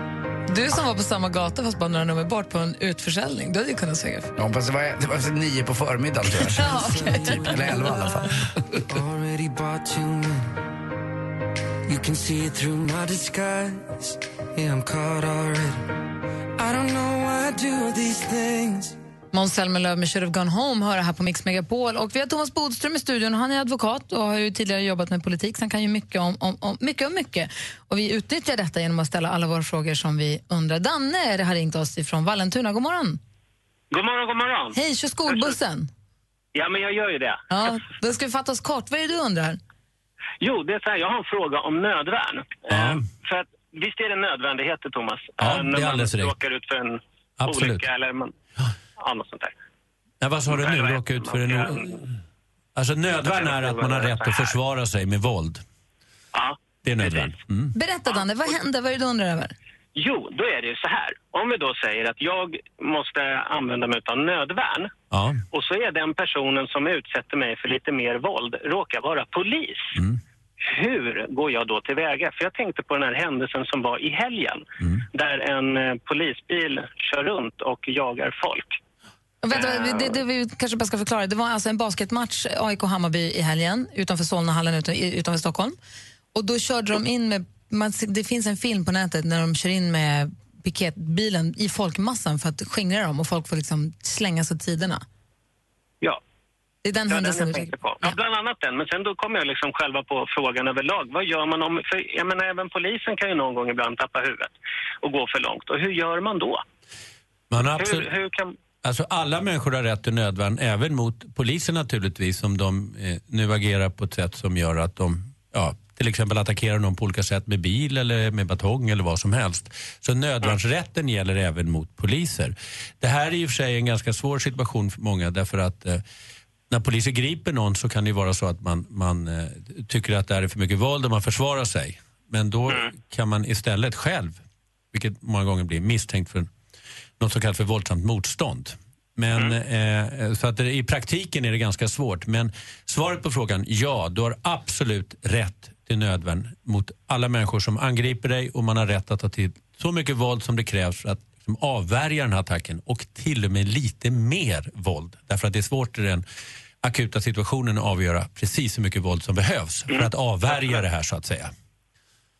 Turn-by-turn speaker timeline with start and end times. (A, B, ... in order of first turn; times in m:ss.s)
0:00.5-0:04.3 A
0:04.4-0:08.8 B
0:06.6-0:07.7 A
0:06.6-0:08.2 C
0:08.7-0:10.5 C
0:11.9-0:16.0 C
0:16.6-0:19.0 C
0:19.3-0:33.2 A
0:33.9-0:34.8 D
0:34.7-0:35.9 A
0:35.3-0:35.5 D
0:36.5-0:37.4 D
0:37.5-0:39.6 A
0:40.4-0:48.3 D
0:42.7-0:43.0 E
0:45.4-0:46.3 E
0:47.4-0:47.8 E
0:49.0-0:49.5 D
0:50.2-0:52.0 E
0:50.5-0:51.9 D
0:52.7-0:55.6 E
0:53.2-0:54.5 D
0:56.3-0:57.3 D
0:56.8-0:57.7 E
0:57.7-0:59.5 A
0:59.9-1:04.9 D
1:05.1-1:05.4 E
1:05.5-1:09.9 D
1:10.6-1:18.8 D
1:19.4-1:25.8 A
1:19.5-1:20.2 D
1:26.3-1:35.0 A
1:36.8-1:38.2 A
1:37.1-1:46.6 D
1:47.5-1:48.1 E
1:47.8-1:48.6 D
1:48.8-2:06.0 E
2:06.7-2:14.4 E
2:14.9-2:16.5 E
2:17.2-2:36.2 E
2:36.8-2:41.5 E